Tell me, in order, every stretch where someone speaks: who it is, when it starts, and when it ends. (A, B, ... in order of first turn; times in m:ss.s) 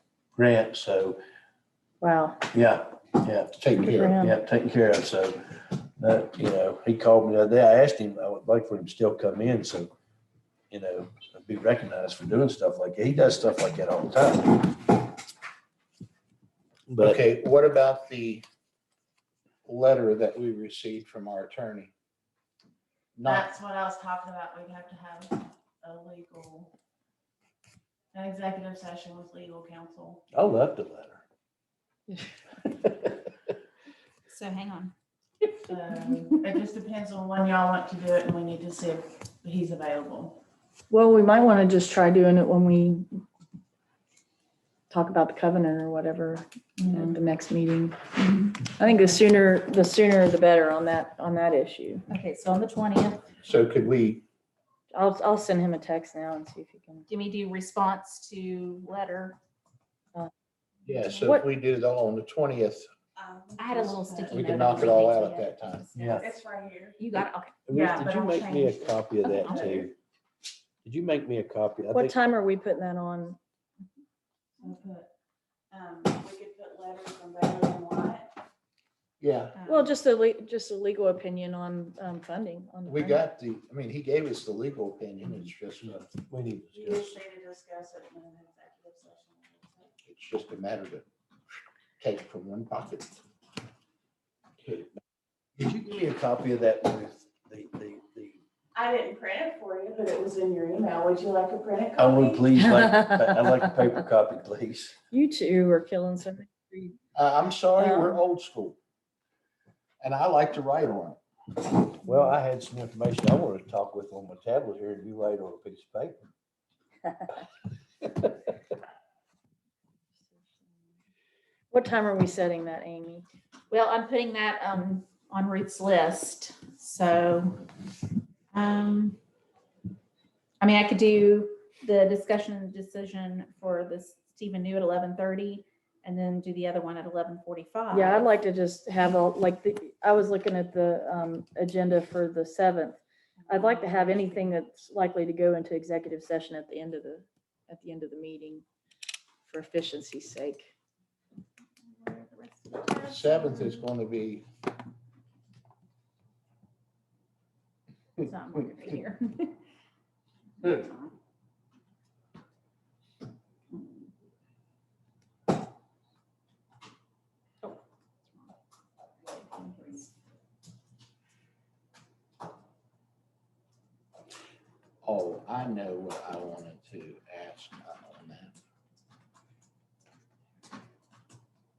0:00.4-0:01.2 A
0:02.0-0:02.4 B
0:02.5-0:09.9 A
0:03.6-0:04.2 C
0:03.8-0:04.4 B
0:10.7-0:14.9 A
0:16.9-0:17.2 A
0:17.0-0:18.4 C
0:19.6-0:21.9 C
0:23.2-0:23.5 C
0:23.3-0:26.7 D
0:28.1-0:30.2 D
0:30.3-0:31.2 A
0:32.1-0:32.3 B
0:34.3-0:34.9 E
0:35.7-0:40.4 D
0:40.9-0:43.2 B
0:44.9-0:48.0 B
0:48.2-0:48.7 E
0:48.8-0:52.0 B
0:52.1-0:53.2 E
0:53.4-0:54.2 C
0:54.9-0:57.1 B
0:57.1-0:59.4 E
1:00.9-1:02.9 C
1:03.2-1:04.6 D
1:03.6-1:06.1 E
1:04.3-1:05.9 C
1:05.9-1:06.3 A
1:06.0-1:07.0 D
1:07.0-1:07.5 E
1:07.7-1:10.0 A
1:07.7-1:09.9 D
1:09.2-1:09.8 E
1:10.8-1:12.2 A
1:11.9-1:13.4 B
1:14.6-1:15.1 D
1:15.7-1:18.3 D
1:19.2-1:19.6 C
1:19.6-1:20.0 E
1:19.6-1:23.2 B
1:22.9-1:26.0 C
1:25.8-1:27.2 A
1:26.7-1:30.0 D
1:30.0-1:31.0 C
1:32.0-1:33.2 C
1:35.6-1:38.4 A
1:38.8-1:42.5 D
1:42.0-1:45.0 A
1:42.8-1:43.7 B
1:45.1-1:47.0 B
1:47.2-1:48.8 C
1:47.8-1:48.2 B
1:50.0-1:51.2 C
1:52.0-1:56.3 A
2:01.7-2:03.3 B
2:03.7-2:07.7 E
2:08.5-2:09.2 E
2:10.6-2:18.3 E
2:17.9-2:28.6 B
2:23.4-2:24.5 E
2:29.4-2:30.7 B
2:31.8-2:33.8 E
2:33.0-2:34.5 C
2:38.2-2:39.5 E
2:40.6-2:41.1 E
2:43.7-2:44.0 E
2:49.3-2:50.1 E
2:55.0-2:58.6 C